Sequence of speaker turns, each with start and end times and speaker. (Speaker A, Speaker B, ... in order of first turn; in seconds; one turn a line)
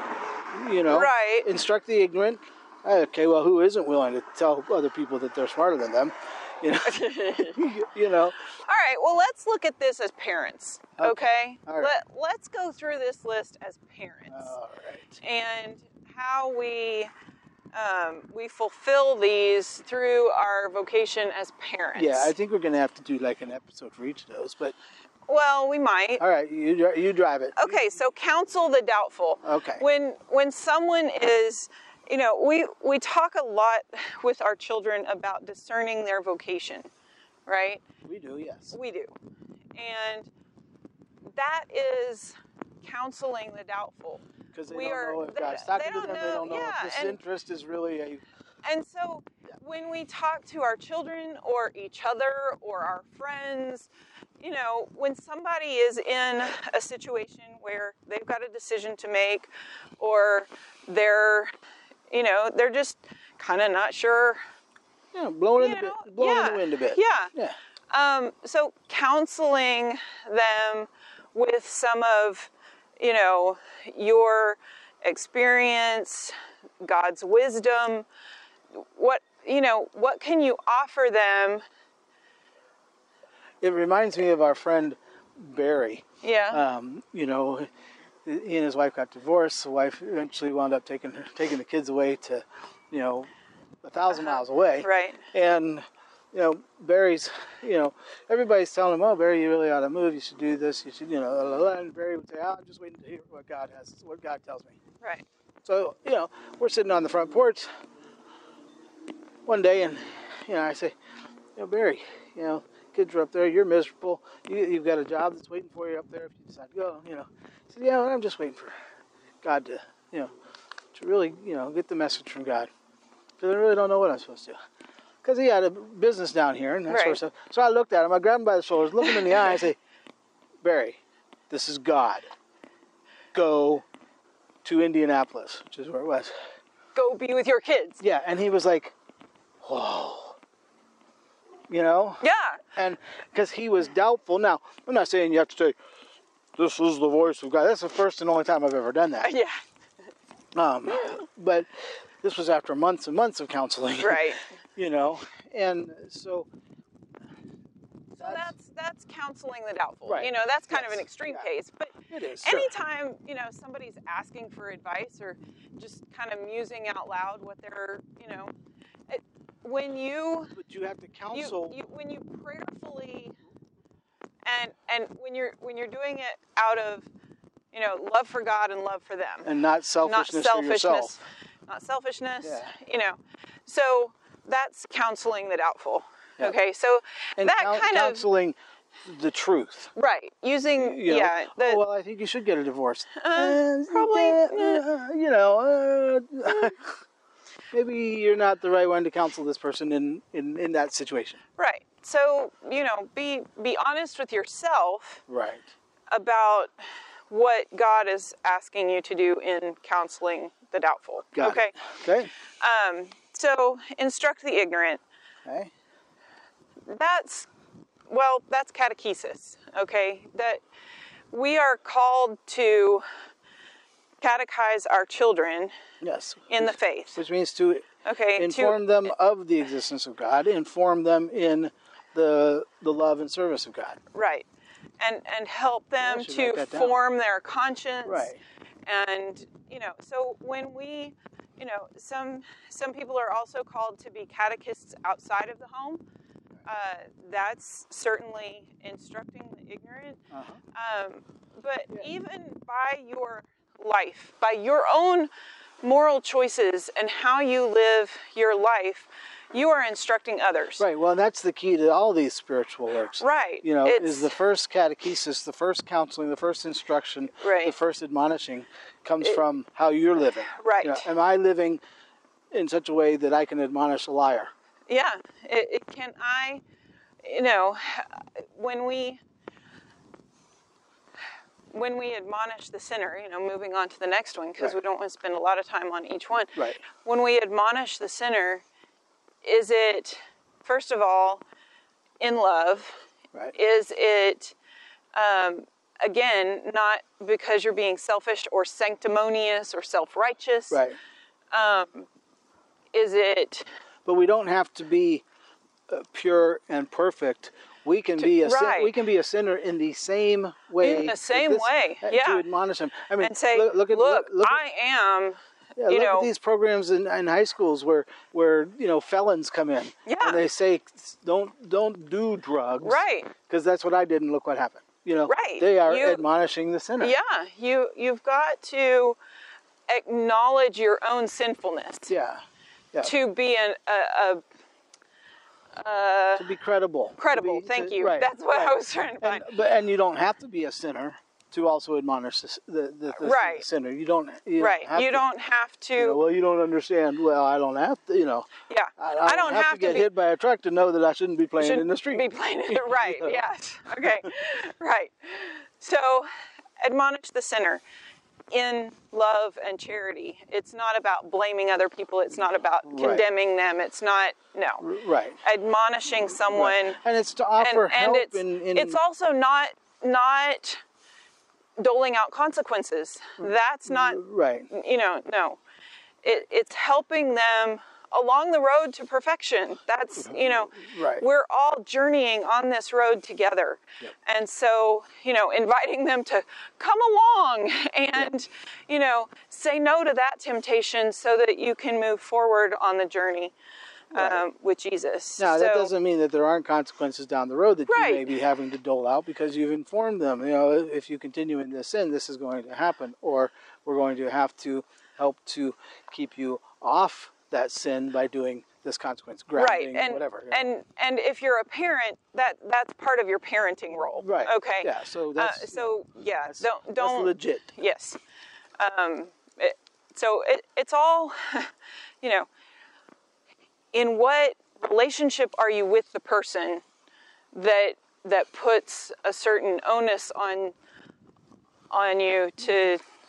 Speaker A: 0.5-8.4
Speaker B: 0.9-1.5
Speaker B: 6.8-7.6
Speaker B: 8.7-14.5
Speaker A: 11.0-11.9
Speaker A: 14.3-15.2
Speaker B: 15.2-17.1
Speaker B: 17.7-22.3
Speaker A: 21.9-24.8
Speaker B: 25.3-26.2
Speaker A: 26.2-27.8
Speaker B: 27.6-36.9
Speaker A: 29.4-29.8
Speaker B: 37.5-37.8
Speaker A: 38.0-38.8
Speaker B: 38.7-39.1
Speaker B: 39.7-40.3
Speaker B: 41.2-47.2
Speaker A: 44.5-48.2
Speaker B: 48.6-53.9
Speaker B: 54.4-61.5
Speaker B: 62.1-64.4
Speaker A: 65.1-67.6
Speaker B: 65.6-67.3
Speaker B: 67.9-78.0
Speaker B: 78.7-81.6
Speaker A: 83.6-87.7
Speaker B: 86.2-86.6
Speaker A: 88.2-93.3
Speaker A: 93.8-104.8
Speaker B: 94.1-95.2
Speaker A: 105.6-107.7
Speaker A: 109.5-111.0
Speaker A: 111.5-118.7
Speaker A: 119.4-120.3
Speaker A: 120.9-122.7
Speaker A: 123.4-124.6
Speaker A: 125.2-129.8
Speaker B: 126.9-127.2
Speaker A: 130.6-132.3
Speaker A: 133.3-133.8
Speaker A: 134.6-136.3
Speaker B: 136.9-138.0
Speaker A: 138.0-138.9
Speaker A: 139.6-140.4
Speaker A: 141.7-145.8
Speaker B: 142.2-142.6
Speaker A: 146.6-149.3
Speaker B: 149.2-149.6
Speaker A: 150.5-156.5
Speaker B: 154.0-154.4
Speaker B: 158.2-168.5
Speaker A: 158.2-158.5
Speaker A: 160.1-161.5
Speaker A: 162.1-162.7
Speaker B: 169.1-170.5
Speaker A: 170.5-171.8
Speaker B: 171.3-173.3
Speaker B: 174.4-177.1
Speaker B: 177.7-179.5
Speaker A: 179.4-181.2
Speaker B: 180.0-188.2
Speaker A: 182.4-182.7
Speaker A: 187.4-189.9
Speaker B: 189.9-191.8
Speaker A: 190.8-196.9
Speaker B: 193.2-194.8
Speaker A: 197.7-201.4
Speaker B: 201.6-205.2
Speaker A: 205.3-205.7
Speaker B: 206.1-206.7
Speaker B: 207.3-211.7
Speaker A: 211.3-212.3
Speaker B: 212.6-215.0
Speaker A: 215.4-215.7
Speaker B: 216.9-217.5
Speaker B: 218.1-220.6
Speaker B: 221.3-223.0
Speaker B: 224.2-225.7
Speaker A: 226.0-234.0
Speaker B: 226.5-227.2
Speaker B: 228.0-228.8
Speaker B: 234.1-234.4
Speaker B: 235.0-238.3
Speaker A: 236.0-237.0
Speaker A: 238.0-238.4
Speaker B: 238.8-246.0
Speaker B: 246.7-250.2
Speaker A: 250.3-250.6
Speaker B: 250.7-255.3
Speaker B: 255.8-260.8
Speaker A: 260.8-271.8
Speaker B: 263.2-264.3
Speaker B: 267.4-267.7
Speaker B: 270.6-271.1
Speaker A: 272.5-274.5
Speaker B: 274.9-276.6
Speaker B: 277.2-279.2
Speaker B: 281.7-288.6
Speaker A: 286.6-286.8
Speaker B: 289.4-291.4
Speaker B: 292.2-293.0
Speaker B: 293.5-294.5
Speaker B: 295.1-300.8
Speaker A: 300.7-301.0
Speaker B: 301.5-302.1
Speaker B: 302.9-303.7
Speaker A: 304.0-305.2
Speaker A: 305.9-314.6
Speaker B: 308.2-308.9
Speaker B: 310.8-312.4
Speaker B: 313.2-316.3
Speaker A: 315.8-327.1
Speaker B: 320.1-320.4
Speaker B: 322.8-323.3
Speaker B: 325.3-326.2
Speaker B: 327.0-329.2
Speaker B: 329.9-332.1
Speaker A: 332.1-333.1
Speaker B: 333.0-334.4
Speaker B: 335.8-336.5
Speaker A: 336.4-345.2
Speaker B: 337.2-339.4
Speaker B: 343.2-343.6
Speaker B: 344.6-346.2
Speaker A: 346.0-353.4
Speaker B: 348.7-350.1
Speaker B: 351.6-357.8
Speaker A: 354.0-354.3
Speaker B: 358.5-364.9
Speaker A: 362.8-363.3
Speaker A: 364.8-365.4
Speaker B: 365.4-367.0
Speaker A: 366.5-369.0
Speaker B: 367.6-370.8
Speaker B: 371.8-374.2
Speaker A: 373.4-374.7
Speaker B: 374.7-375.6
Speaker B: 376.2-393.5
Speaker A: 380.2-381.2
Speaker B: 394.1-395.9
Speaker A: 394.1-394.4
Speaker A: 395.4-410.7
Speaker B: 397.9-398.3
Speaker B: 409.6-418.2
Speaker A: 414.1-417.7
Speaker B: 418.8-422.5
Speaker B: 423.9-426.8
Speaker B: 427.5-430.7
Speaker B: 431.9-433.0